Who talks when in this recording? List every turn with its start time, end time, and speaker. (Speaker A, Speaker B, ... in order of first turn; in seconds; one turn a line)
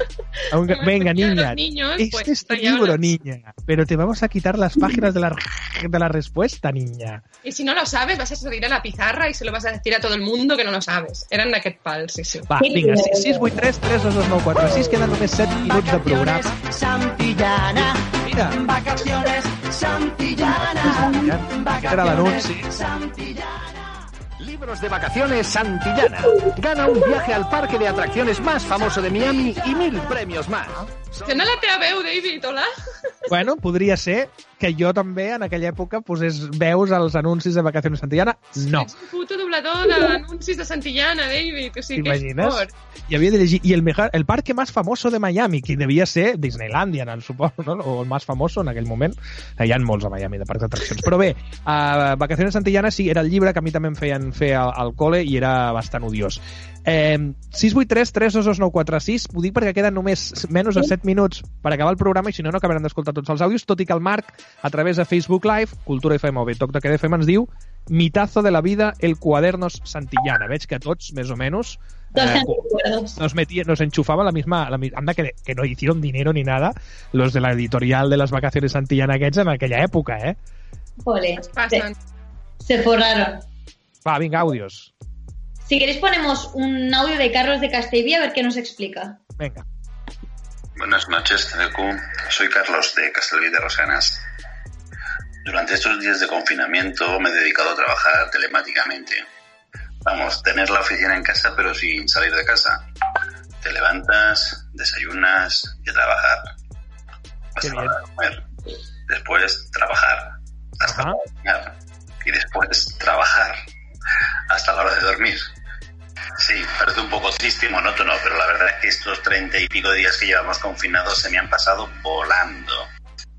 Speaker A: 0.5-7.2
Speaker B: 0.6-3.1
Speaker B: 7.4-12.5
Speaker A: 12.5-16.6
Speaker C: 12.6-13.6
Speaker D: 14.6-23.7
Speaker A: 17.7-18.6
Speaker A: 20.4-22.7
Speaker C: 20.9-21.2
Speaker D: 24.4-31.5
Speaker B: 31.2-32.7
Speaker A: 33.3-38.9
Speaker B: 38.6-42.7
Speaker A: 42.0-72.6
Speaker C: 72.1-73.2
Speaker A: 73.2-80.4
Speaker C: 81.0-81.8
Speaker B: 81.3-82.0
Speaker C: 82.6-83.4
Speaker A: 84.0-84.9
Speaker C: 85.6-89.2
Speaker A: 89.4-89.6
Speaker E: 90.8-94.2
Speaker E: 95.4-99.2
Speaker E: 100.0-102.8
Speaker E: 103.6-106.5
Speaker E: 107.5-108.5
Speaker A: 107.6-108.0
Speaker E: 109.1-113.5
Speaker A: 110.8-111.2
Speaker E: 114.5-115.4
Speaker E: 116.4-122.9